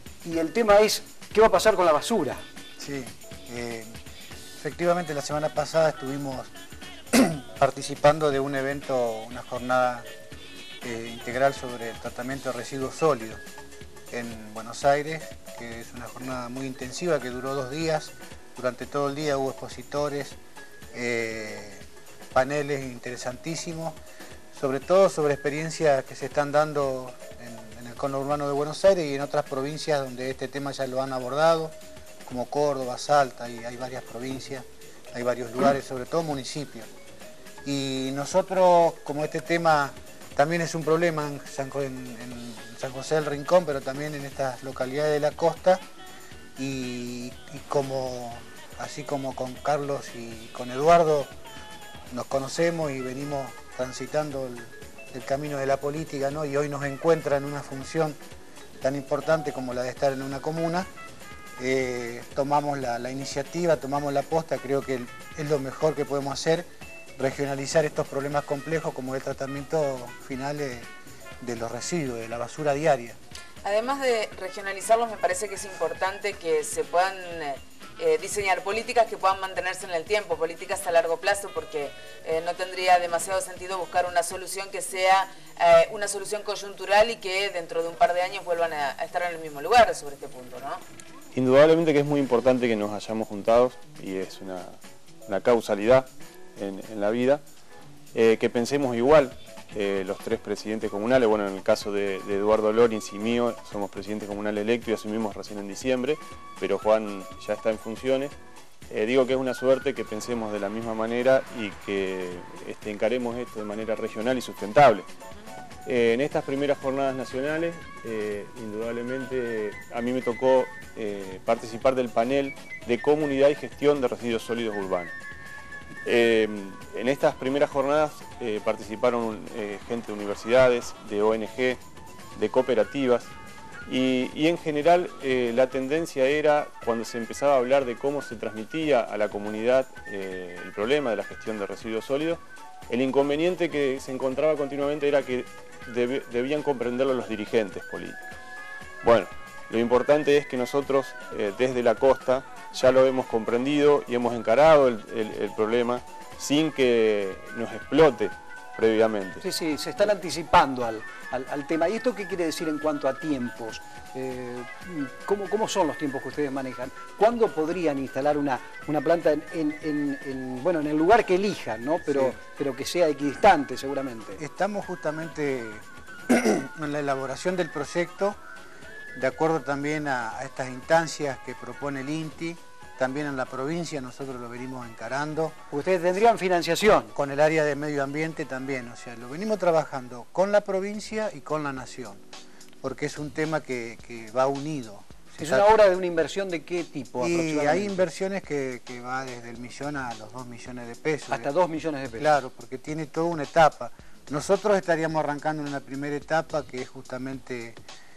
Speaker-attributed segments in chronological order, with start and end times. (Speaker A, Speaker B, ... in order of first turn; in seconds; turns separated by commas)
Speaker A: 0.2-2.5, Speaker B: 2.8-4.0, Speaker B: 4.6-6.5, Speaker B: 7.1-10.1, Speaker B: 10.8-13.4, Speaker B: 14.1-20.4, Speaker B: 20.9-24.0, Speaker B: 24.5-31.7, Speaker B: 32.2-36.9, Speaker B: 37.6-45.8, Speaker B: 46.6-51.3, Speaker B: 52.1-58.2, Speaker B: 58.8-60.9, Speaker B: 61.6-66.7, Speaker B: 67.2-70.9, Speaker B: 71.4-73.2, Speaker C: 73.6-90.8, Speaker D: 91.3-94.7, Speaker D: 95.3-97.4, Speaker D: 98.1-108.3, Speaker D: 108.9-115.1, Speaker D: 115.8-125.1, Speaker D: 126.0-131.8, Speaker D: 132.3-133.3, Speaker D: 133.9-148.2, Speaker D: 149.0-159.4, Speaker A: 159.4-174.4, Speaker B: 172.1-172.4, Speaker B: 174.4-178.4, Speaker B: 179.2-185.6, Speaker A: 185.7-187.1, Speaker B: 187.2-192.2, Speaker B: 192.8-195.7, Speaker A: 195.4-198.1, Speaker B: 197.2-201.5, Speaker A: 201.3-202.3, Speaker B: 202.2-207.8